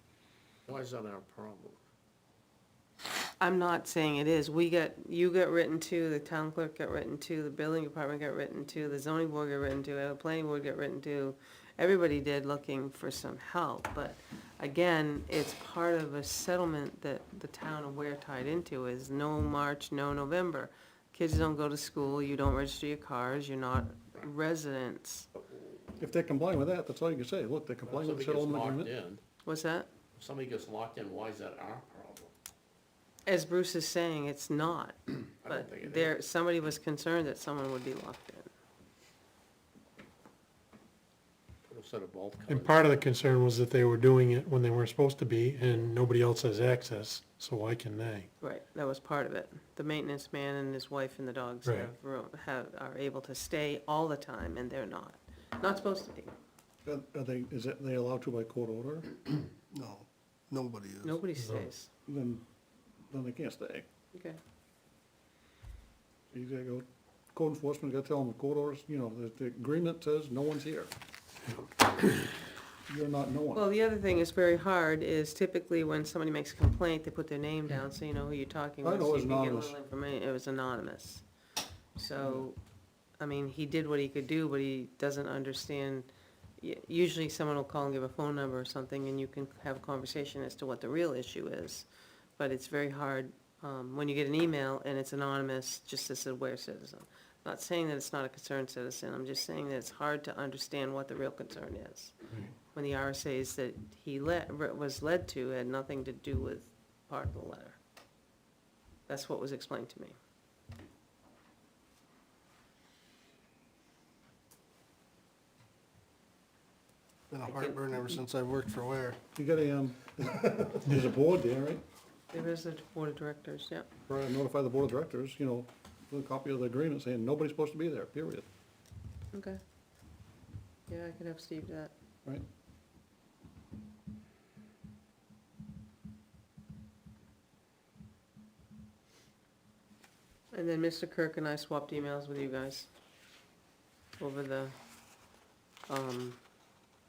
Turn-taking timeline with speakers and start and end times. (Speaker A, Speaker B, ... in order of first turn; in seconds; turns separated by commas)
Speaker A: 0.7-1.8, Speaker B: 3.4-25.3, Speaker C: 26.0-28.9, Speaker A: 27.9-29.2, Speaker B: 29.4-29.9, Speaker A: 30.1-32.3, Speaker B: 33.2-38.5, Speaker A: 35.4-36.1, Speaker A: 41.7-42.8, Speaker D: 42.5-48.3, Speaker B: 48.4-56.3, Speaker D: 51.6-51.9, Speaker C: 56.8-59.4, Speaker E: 59.7-61.2, Speaker B: 61.0-61.9, Speaker D: 61.4-61.7, Speaker C: 62.0-62.4, Speaker C: 63.1-63.8, Speaker B: 64.1-64.4, Speaker C: 66.3-70.9, Speaker C: 72.8-73.6, Speaker B: 73.5-81.2, Speaker C: 78.8-79.7, Speaker B: 82.0-82.6, Speaker C: 82.2-82.4, Speaker B: 83.2-86.1, Speaker B: 86.6-91.9, Speaker B: 92.4-102.2, Speaker B: 102.7-107.8, Speaker B: 109.1-110.2, Speaker E: 117.3-119.2, Speaker B: 117.4-118.2, Speaker C: 119.3-121.8, Speaker B: 122.3-123.9, Speaker C: 124.1-128.5, Speaker B: 129.3-129.6, Speaker B: 130.9-131.9, Speaker B: 140.5-142.9, Speaker B: 144.2-144.7, Speaker B: 145.9-146.4